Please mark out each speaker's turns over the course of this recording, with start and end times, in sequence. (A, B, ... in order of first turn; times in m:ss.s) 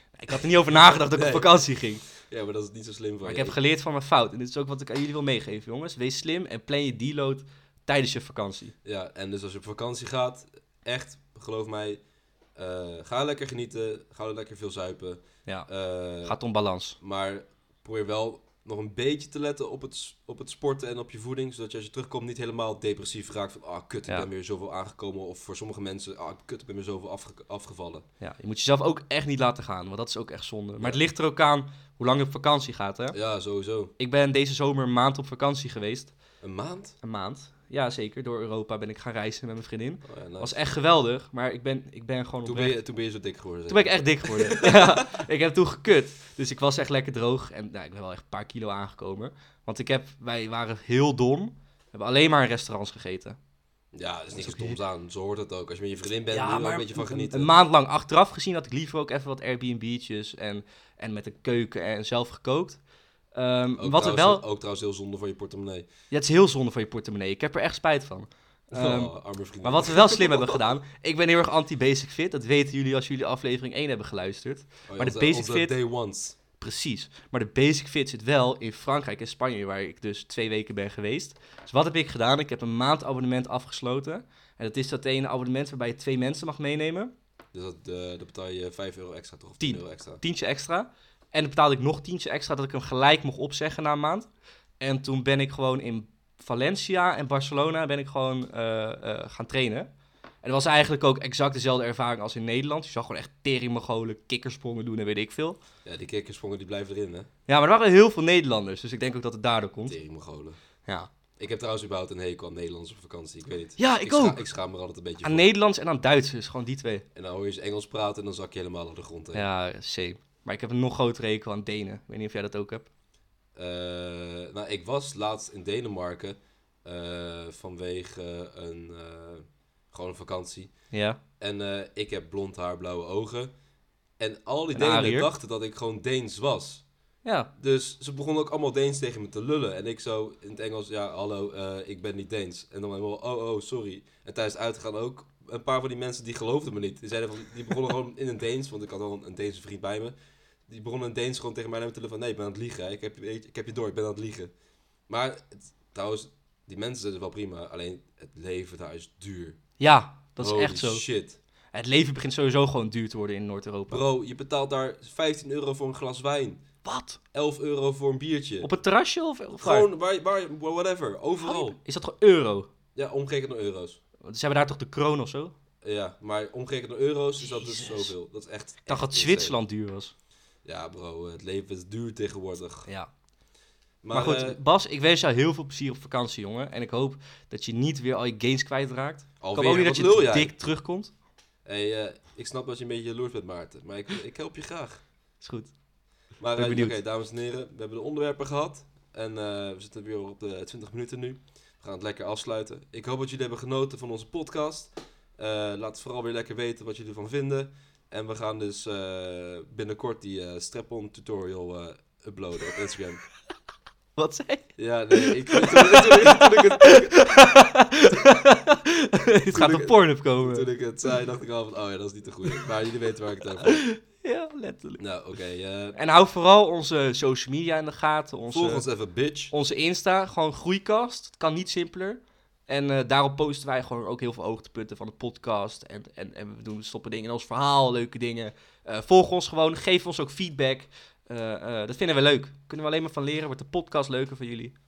0:00.2-0:02.0 A
0:00.9-0:03.6 B
0:03.2-0:08.7 A
0:08.8-0:12.0 B
0:12.6-0:16.4 B
0:16.2-0:17.0 A
0:17.0-0:28.0 B
0:28.2-0:33.2 A
0:33.1-0:33.9 B
0:34.0-0:36.1 A
0:36.4-0:37.0 B
0:37.0-0:42.7 A
0:40.0-0:40.5 B
0:42.4-0:45.2 B
0:43.7-0:53.4 A
0:53.9-0:57.5 B
0:54.3-0:54.8 A
0:56.3-1:02.8 A
1:03.3-1:04.4 A
1:03.8-1:05.9 B
1:06.1-1:15.7 A
1:08.7-1:10.7 B
1:14.9-1:16.4 B
1:16.6-1:27.1 A
1:27.5-1:30.2 B
1:29.6-1:34.3 A
1:34.8-1:39.9 A
1:40.4-1:45.6 A
1:45.8-1:47.3 B
1:47.5-1:50.0 A
1:49.8-1:50.6 B
1:51.4-1:55.5 B
1:53.8-1:54.4 A
1:55.2-1:57.0 A
1:57.1-1:59.5 B
1:59.3-2:02.9 A
2:03.6-2:10.7 B
2:10.9-2:11.2 A
2:11.4-2:13.5 B
2:14.2-2:16.8 B
2:14.7-2:15.3 A
2:17.2-2:17.5 A
2:17.6-2:30.1 B
2:30.7-2:34.5 B
2:35.1-2:39.6 B
2:39.8-2:41.0 A
2:40.4-2:41.4 B
2:41.7-2:44.0 A
2:43.9-2:46.6 B
2:46.8-2:47.2 A
2:47.3-2:48.7 B
2:48.6-2:49.9 A
2:49.6-2:51.8 B
2:51.4-2:52.7 A
2:52.9-2:54.0 B
2:54.2-2:55.5 A
2:55.8-2:59.6 B
2:57.4-2:58.1 A
2:58.9-3:00.1 A
3:00.6-3:02.9 B
3:04.0-3:04.6 B
3:04.1-3:11.1 A
3:09.4-3:10.5 B
3:11.6-3:15.0 B
3:15.4-3:15.7 A
3:16.4-3:33.2 B
3:16.6-3:16.9 A
3:34.2-3:40.7 A
3:34.8-3:37.1 B
3:39.5-3:43.8 B
3:43.6-3:45.0 A
3:45.0-3:46.0 B
3:46.0-3:48.8 A
3:48.5-3:49.5 B
3:49.5-4:04.7 A